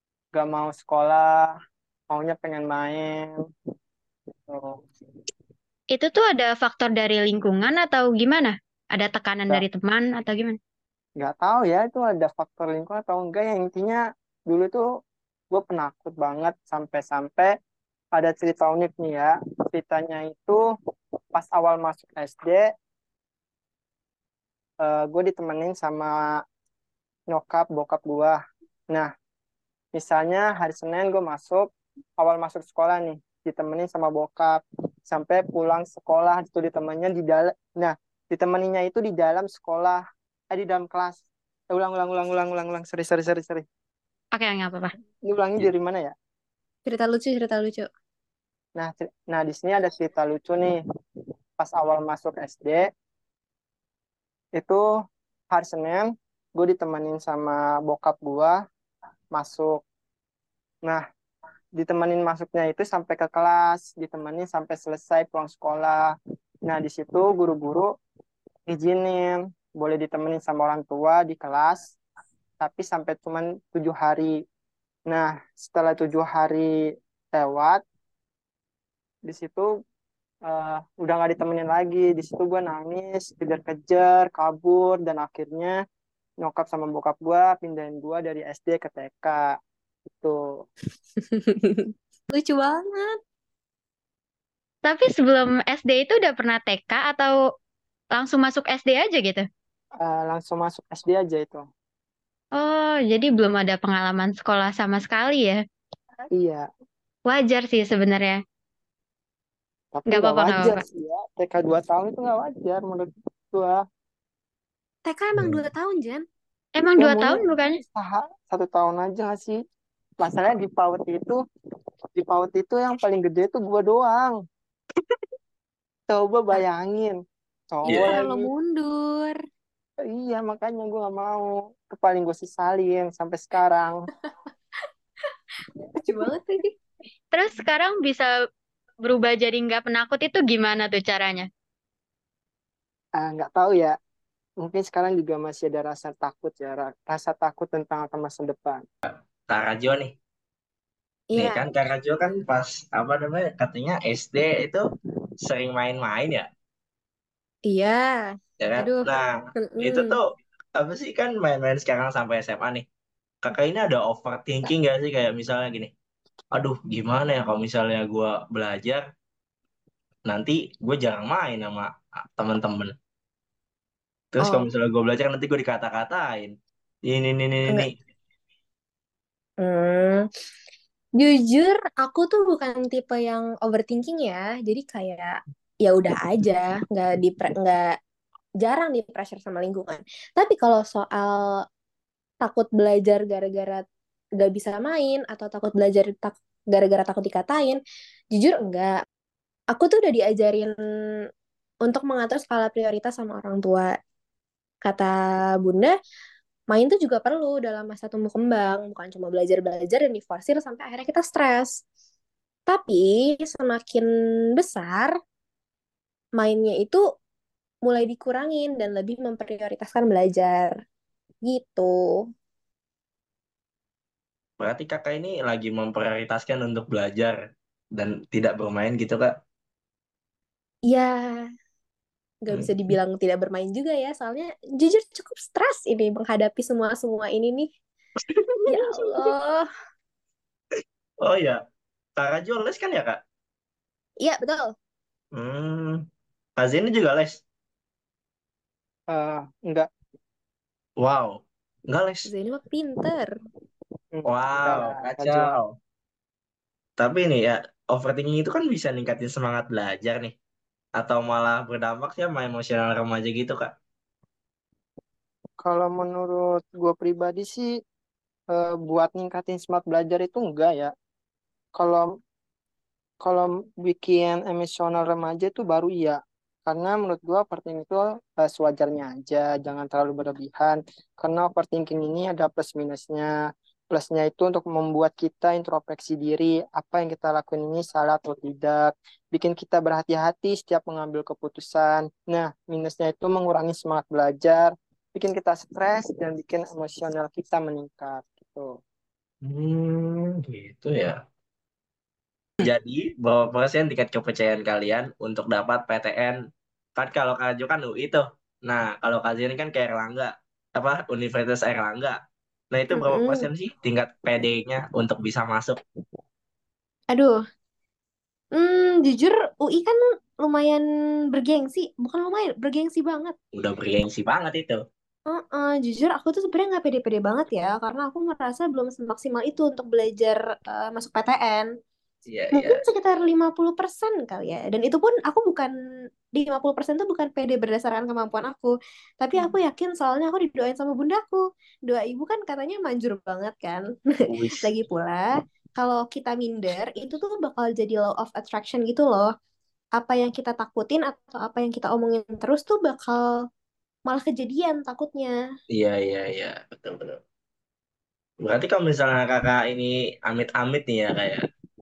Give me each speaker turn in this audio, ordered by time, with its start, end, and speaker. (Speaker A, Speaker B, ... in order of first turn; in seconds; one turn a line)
Speaker A: 0.3-1.5
Speaker A: 2.1-3.4
Speaker A: 4.5-4.8
Speaker B: 5.9-10.6
Speaker A: 11.2-14.8
Speaker A: 15.5-17.5
Speaker A: 18.2-20.6
Speaker A: 21.4-22.7
Speaker A: 24.8-26.2
Speaker A: 27.3-28.4
Speaker A: 29.9-31.7
Speaker A: 32.2-43.6
Speaker B: 44.3-44.9
Speaker A: 45.2-46.1
Speaker C: 46.9-47.9
Speaker A: 48.8-50.8
Speaker A: 51.6-52.9
Speaker A: 54.6-54.8
Speaker A: 55.5-58.6
Speaker A: 59.3-59.8
Speaker A: 61.8-66.1
Speaker A: 66.7-67.9
Speaker A: 68.7-72.0
Speaker A: 72.6-74.3
Speaker A: 75.1-76.7
Speaker A: 77.3-77.8
Speaker A: 79.3-79.7
Speaker A: 80.5-85.8
Speaker A: 86.4-89.5
Speaker C: 91.4-93.2
Speaker B: 94.8-97.4
Speaker B: 98.1-99.5
Speaker A: 100.0-101.6
Speaker B: 102.6-105.6
Speaker A: 106.3-106.7
Speaker B: 107.3-108.4
Speaker A: 109.9-113.8
Speaker B: 110.1-110.8
Speaker C: 115.1-116.2
Speaker D: 115.4-115.6
Speaker B: 116.8-117.8
Speaker A: 117.0-119.6
Speaker A: 120.2-121.4
Speaker A: 122.2-124.4
Speaker A: 126.1-127.2
Speaker A: 127.7-128.5
Speaker C: 127.8-129.4
Speaker D: 127.9-128.2
Speaker A: 130.1-133.9
Speaker C: 136.0-136.7
Speaker B: 137.3-138.3
Speaker B: 139.0-141.5
Speaker A: 143.2-144.0
Speaker A: 144.6-148.8
Speaker D: 149.1-150.1
Speaker C: 151.3-151.7
Speaker D: 151.4-154.9
Speaker D: 155.4-156.5
Speaker C: 157.7-160.2
Speaker D: 158.6-160.2
Speaker D: 160.8-162.8
Speaker D: 163.4-165.9
Speaker D: 166.5-169.0
Speaker D: 170.3-172.9
Speaker D: 174.3-176.5
Speaker C: 174.4-174.7
Speaker D: 177.1-177.9
Speaker C: 179.6-180.2
Speaker C: 181.2-187.8
Speaker C: 188.6-191.6
Speaker C: 192.4-193.8
Speaker C: 194.4-197.8
Speaker C: 198.3-198.9
Speaker C: 199.7-200.7
Speaker C: 201.8-203.9
Speaker C: 204.8-205.9
Speaker C: 206.7-211.8
Speaker C: 212.7-215.1
Speaker C: 216.4-217.0
Speaker C: 217.8-220.7
Speaker C: 221.4-221.9
Speaker D: 224.6-227.4
Speaker D: 228.0-229.3
Speaker C: 230.9-231.3
Speaker C: 232.4-237.7
Speaker D: 232.5-232.9
Speaker D: 238.3-238.7
Speaker C: 238.7-239.6
Speaker D: 241.2-241.6
Speaker D: 242.2-243.2
Speaker C: 244.2-244.7
Speaker D: 245.3-246.0
Speaker D: 246.6-247.4
Speaker A: 249.1-249.9
Speaker D: 251.0-252.3
Speaker C: 252.3-253.3
Speaker A: 254.1-255.6
Speaker D: 254.3-255.7
Speaker D: 257.0-260.3
Speaker D: 261.0-263.7
Speaker A: 265.6-267.7
Speaker A: 268.5-270.9
Speaker A: 271.8-272.1
Speaker A: 273.2-283.3
Speaker A: 283.9-298.7
Speaker D: 299.4-301.2
Speaker D: 302.6-306.4
Speaker D: 307.0-312.2
Speaker D: 312.7-315.8
Speaker C: 312.9-313.5
Speaker C: 318.6-323.4
Speaker D: 323.5-324.8
Speaker C: 325.3-331.7
Speaker D: 332.3-332.8
Speaker C: 332.6-335.7
Speaker C: 336.3-343.8
Speaker D: 344.3-344.6
Speaker C: 344.5-349.3
Speaker C: 350.0-353.2
Speaker C: 354.1-355.3
Speaker D: 355.7-357.2
Speaker D: 358.4-361.4